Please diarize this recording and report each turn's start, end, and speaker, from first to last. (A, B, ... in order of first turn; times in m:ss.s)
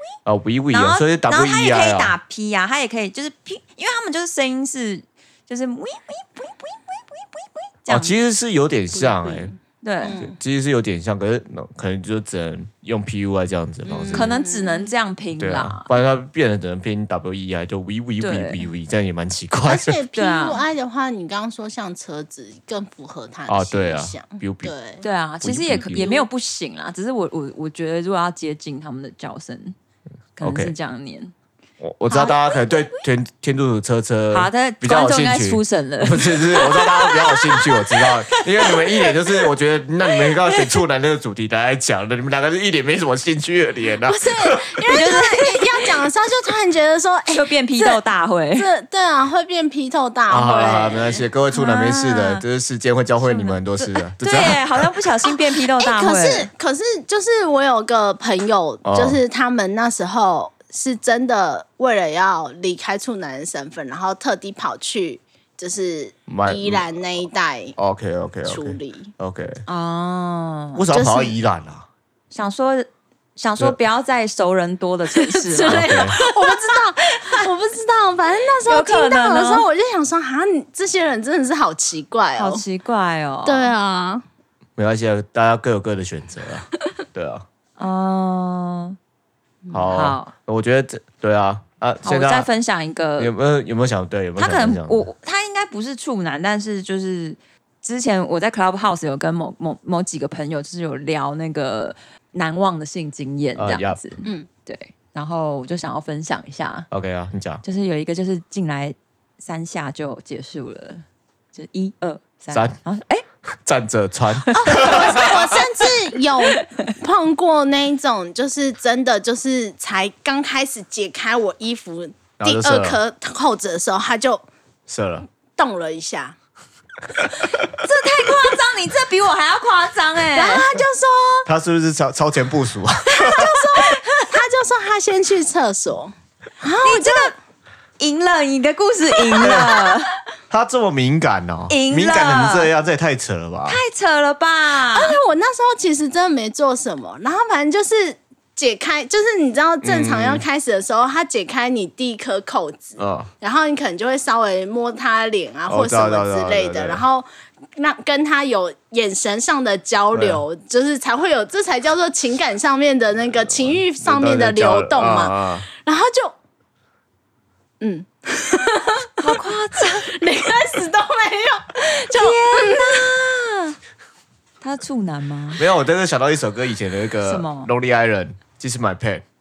0:00.3-0:02.1 A
0:00.7-0:08.1 B
0:07.9-0:09.5 A
0:09.1-0:09.5 C
0:09.8-0:10.2 B
0:10.0-0:10.4 C
0:10.1-0:14.3 A
0:13.9-0:14.9 C
0:14.1-0:15.9 B
0:15.4-0:20.0 A
0:18.2-0:18.7 B
0:19.7-0:25.0 C
0:20.1-0:20.6 B
0:23.5-0:24.7 A
0:25.0-0:29.8 B
0:25.4-0:26.0 A
0:25.9-0:26.3 C
0:30.4-0:31.3 B
0:30.4-0:30.7 A
0:31.8-0:44.8 A
0:32.1-0:32.4 B
0:34.3-0:39.2 B
0:44.0-0:48.0 C
0:44.9-0:45.9 B
0:47.3-0:48.7 B
0:48.6-0:51.2 C
0:50.3-0:54.9 A
0:51.5-0:52.4 B
0:53.2-0:56.5 B
0:55.8-1:07.8 C
0:58.8-0:59.2 A
1:06.3-1:06.8 A
1:07.8-1:09.6 A
1:08.4-1:09.1 C
1:09.7-1:10.8 B
1:10.8-1:11.9 A
1:10.9-1:11.4 C
1:12.3-1:17.4 B
1:15.2-1:22.6 C
1:15.7-1:16.2 A
1:18.7-1:19.7 B
1:22.4-1:23.7 B
1:23.5-1:24.2 C
1:24.8-1:27.4 A
1:27.8-1:29.0 B
1:29.7-1:30.3 B
1:29.7-1:32.5 A
1:32.0-1:33.3 B
1:33.2-1:35.0 A
1:34.4-1:46.9 B
1:43.6-1:44.0 A
1:46.9-1:47.6 A
1:47.6-1:53.2 B
1:52.5-1:52.8 A
1:53.5-1:55.6 A
1:54.4-1:55.3 B
1:54.5-2:04.4 C
1:56.4-1:56.8 B
2:02.4-2:03.0 A
2:04.9-2:05.3 A
2:05.6-2:06.4 C
2:07.4-2:10.8 B
2:10.3-2:11.5 C
2:11.5-2:13.6 A
2:13.1-2:17.3 C
2:13.8-2:14.4 B
2:16.8-2:17.3 B
2:18.0-2:20.1 B
2:19.4-2:19.8 A
2:20.5-2:23.8 A
2:21.7-2:22.7 B
2:23.7-2:25.2 B
2:24.9-2:46.3 C
2:29.8-2:30.4 A
2:33.0-2:33.3 A
2:35.7-2:37.0 A
2:40.1-2:40.4 A
2:43.5-2:45.7 A
2:47.8-2:53.1 C
2:49.2-2:50.2 B
2:51.8-2:53.8 B
2:54.6-2:55.6 B
2:55.6-2:59.2 A
2:57.2-2:57.7 B